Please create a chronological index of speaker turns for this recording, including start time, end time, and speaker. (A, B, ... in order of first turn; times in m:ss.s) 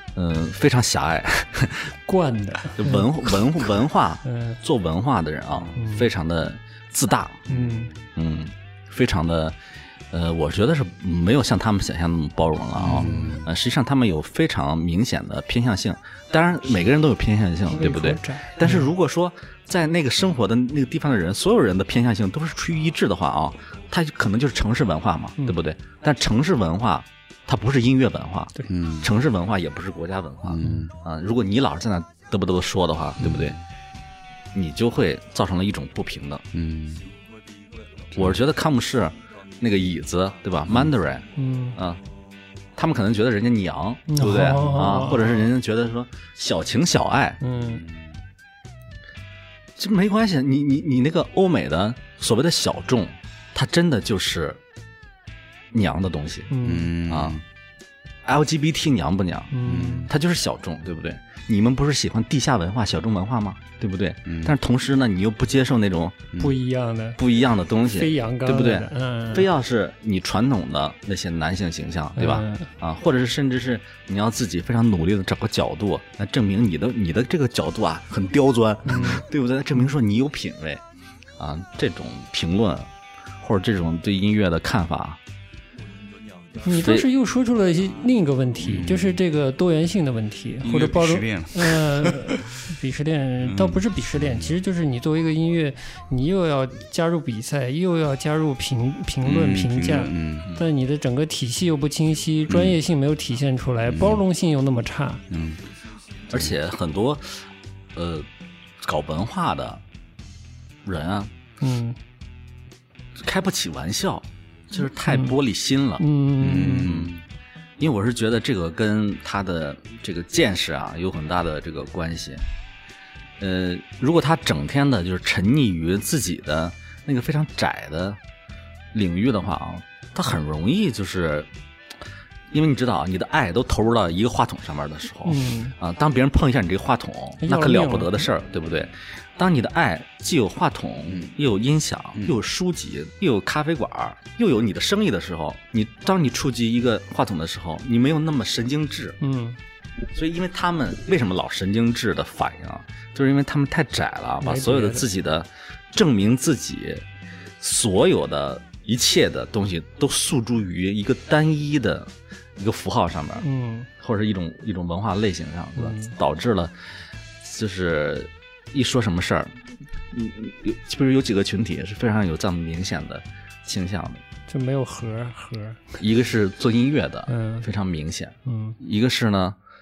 0:00.2-0:01.9 A
0:02.0-0:03.1 B
0:02.8-0:07.5 A
0:04.2-0:04.6 B
0:05.5-0:05.8 C
0:05.8-0:06.1 B
0:07.5-0:07.9 B
0:07.5-0:07.9 C
0:08.1-0:09.6 A
0:10.1-0:33.6 A
0:12.8-0:13.5 C
0:12.8-0:13.4 B
0:17.7-0:18.9 B
0:28.7-0:29.1 C
0:30.4-0:30.9 C
0:30.6-0:30.9 B
0:33.2-0:33.6 C
0:34.5-0:36.4 A
0:36.5-0:37.1 C
0:38.1-0:42.0 A
0:38.1-0:38.4 C
0:41.4-0:41.8 B
0:42.7-0:47.4 A
0:44.1-0:45.5 B
0:47.4-0:47.8 B
0:47.6-0:48.2 C
0:49.8-0:54.6 A
0:55.7-0:56.5 A
0:56.5-0:56.9 B
0:56.6-0:57.4 C
0:57.0-0:57.4 A
0:58.2-1:06.3 A
0:59.5-1:00.1 B
0:59.6-1:00.1 C
1:04.2-1:04.5 C
1:06.4-1:07.2 B
1:07.2-1:20.8 A
1:07.9-1:09.5 B
1:12.2-1:12.7 B
1:18.8-1:19.2 B
1:21.4-1:22.9 A
1:23.4-1:25.2 A
1:26.6-1:45.2 B
1:26.6-1:27.1 A
1:28.6-1:29.2 C
1:30.6-1:32.5 C
1:33.4-1:34.6 C
1:39.2-1:40.5 C
1:42.5-1:42.8 C
1:43.9-1:44.2 C
1:45.3-1:45.6 C
1:46.3-1:47.4 A
1:47.9-1:48.3 A
1:48.8-1:49.8 A
1:50.8-1:51.3 A
1:51.6-1:52.0 B
1:53.2-1:57.2 A
1:55.1-1:55.4 B
1:56.0-1:56.9 B
1:56.4-1:57.2 C
1:57.8-2:02.4 A
2:03.4-2:08.2 A
2:08.9-2:11.5 A
2:12.5-2:29.2 A
2:15.2-2:15.8 B
2:17.4-2:18.3 B
2:21.1-2:21.3 C
2:29.2-2:29.6 B
2:30.1-2:37.0 A
2:34.4-2:35.1 B
2:37.6-2:43.4 A
2:43.4-2:43.9 B
2:44.0-2:46.7 A
2:45.8-2:46.2 B
2:47.4-2:49.6 A
2:50.1-2:54.2 A
2:54.5-2:55.8 B
2:55.9-2:59.6 A
2:57.3-2:57.7 B
2:58.4-2:58.8 B